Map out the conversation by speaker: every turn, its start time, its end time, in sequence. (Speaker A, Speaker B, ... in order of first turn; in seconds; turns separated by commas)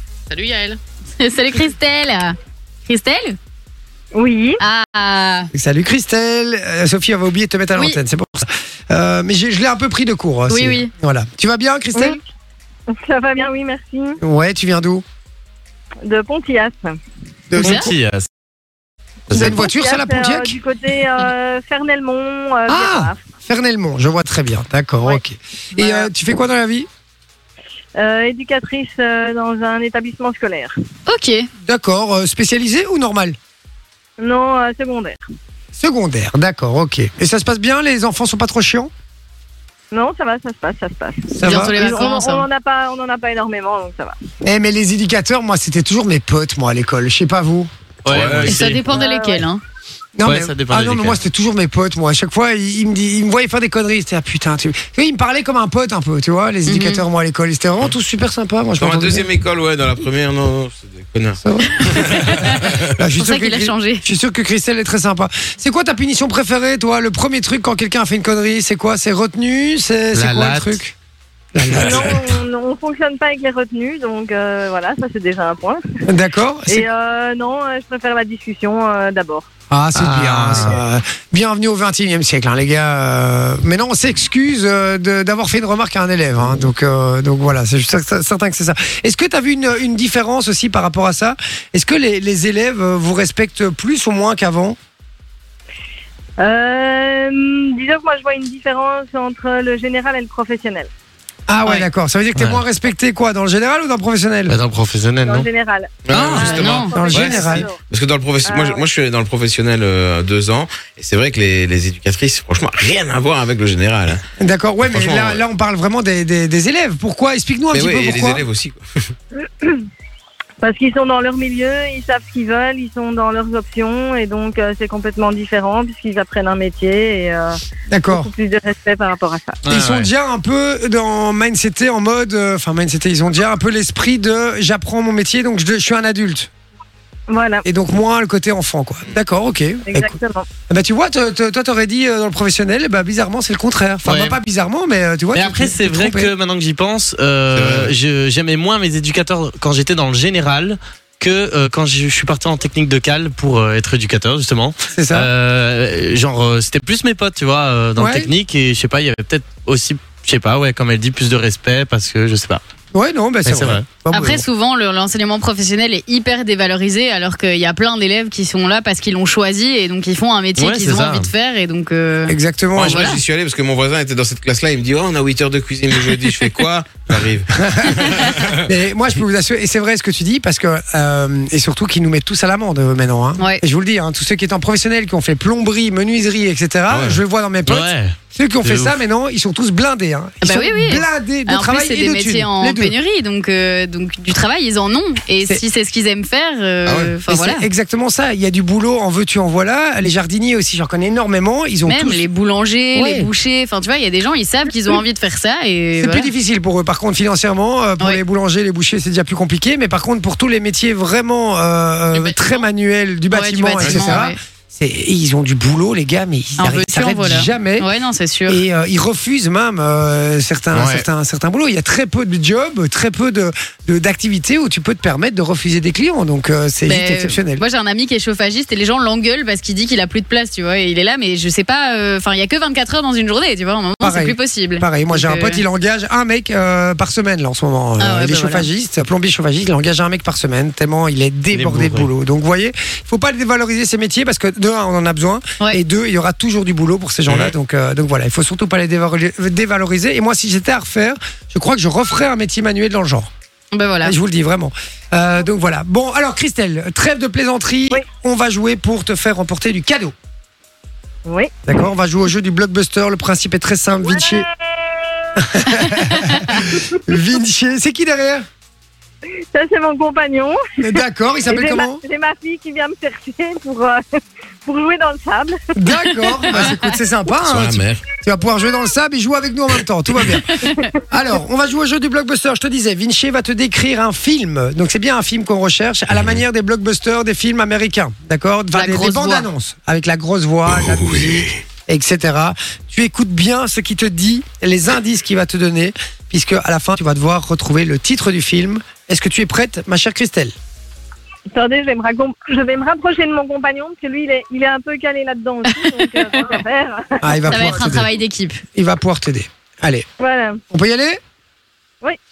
Speaker A: 0.3-2.3, Speaker A: 2.9-3.4, Speaker B: 4.1-4.6, Speaker A: 4.6-5.5, Speaker C: 5.5-12.2, Speaker A: 10.5-10.9, Speaker B: 11.9-12.2, Speaker B: 12.9-14.2, Speaker C: 14.2-15.0, Speaker B: 16.0-16.9, Speaker C: 17.5-17.8, Speaker A: 17.6-17.9, Speaker D: 17.6-18.3, Speaker C: 19.3-20.6, Speaker B: 19.3-23.2, Speaker D: 19.3-19.6, Speaker C: 22.7-26.9, Speaker B: 25.8-26.1, Speaker B: 28.0-30.7, Speaker A: 31.1-31.5, Speaker C: 31.6-33.4, Speaker B: 34.2-35.2, Speaker C: 35.7-38.9, Speaker B: 39.9-44.2, Speaker C: 41.3-41.8, Speaker A: 41.4-42.5, Speaker C: 44.4-47.7, Speaker D: 48.0-48.9, Speaker E: 48.1-48.7, Speaker A: 48.5-49.6, Speaker B: 48.9-49.5, Speaker C: 50.1-59.3, Speaker D: 50.2-51.2, Speaker A: 56.7-57.0, Speaker E: 58.8-62.9, Speaker C: 61.4-70.9, Speaker A: 63.2-64.0, Speaker D: 70.1-70.8, Speaker C: 71.5-72.2, Speaker B: 71.8-75.8, Speaker C: 76.0-76.8, Speaker B: 76.7-79.5, Speaker C: 79.7-94.8, Speaker D: 79.9-80.8, Speaker B: 96.4-100.9, Speaker C: 101.5-104.6, Speaker D: 102.3-102.6, Speaker D: 104.5-105.5, Speaker B: 105.2-107.8, Speaker E: 106.0-114.2, Speaker C: 106.1-107.7, Speaker A: 106.4-106.9, Speaker B: 108.4-108.8, Speaker C: 114.4-118.4, Speaker E: 114.8-115.4, Speaker E: 117.7-119.1, Speaker B: 119.5-119.8, Speaker B: 120.6-127.6, Speaker C: 127.9-128.3, Speaker B: 128.1-129.6, Speaker D: 129.6-130.1, Speaker C: 129.7-136.5, Speaker B: 137.3-137.6, Speaker C: 137.6-140.2, Speaker B: 139.9-140.5, Speaker C: 140.7-146.3, Speaker D: 144.0-144.4, Speaker D: 145.3-162.6, Speaker E: 147.5-147.9, Speaker C: 154.9-155.3, Speaker C: 158.0-158.3, Speaker C: 162.9-164.4, Speaker D: 163.4-163.9, Speaker A: 164.1-173.2, Speaker D: 170.6-171.3, Speaker C: 172.3-173.1, Speaker E: 172.7-178.7, Speaker C: 177.6-178.1, Speaker C: 178.6-192.9, Speaker E: 186.9-187.2, Speaker D: 187.7-189.0, Speaker A: 190.4-197.7, Speaker E: 196.9-197.1, Speaker C: 197.3-202.2, Speaker A: 201.8-206.3, Speaker C: 202.9-203.3, Speaker C: 206.0-217.9, Speaker A: 212.1-212.7, Speaker A: 213.3-214.3, Speaker E: 213.8-214.2, Speaker A: 216.6-218.6, Speaker C: 218.5-227.6, Speaker D: 220.7-221.0, Speaker A: 226.8-235.6, Speaker C: 234.0-253.3, Speaker A: 238.0-238.7, Speaker D: 241.5-242.1, Speaker A: 253.7-254.1, Speaker C: 254.0-260.1, Speaker B: 261.2-261.5, Speaker C: 261.6-264.5, Speaker C: 265.4-268.4, Speaker B: 269.5-274.0, Speaker C: 270.8-272.0, Speaker B: 274.6-276.6, Speaker C: 275.8-300.5, Speaker A: 276.6-276.9, Speaker E: 277.4-278.0, Speaker A: 280.6-280.9, Speaker E: 286.1-286.4, Speaker A: 288.7-289.5, Speaker E: 290.6-291.5, Speaker B: 301.5-307.5, Speaker C: 307.2-308.1, Speaker A: 307.5-308.6, Speaker C: 308.7-310.1, Speaker B: 310.2-310.6, Speaker C: 310.7-311.2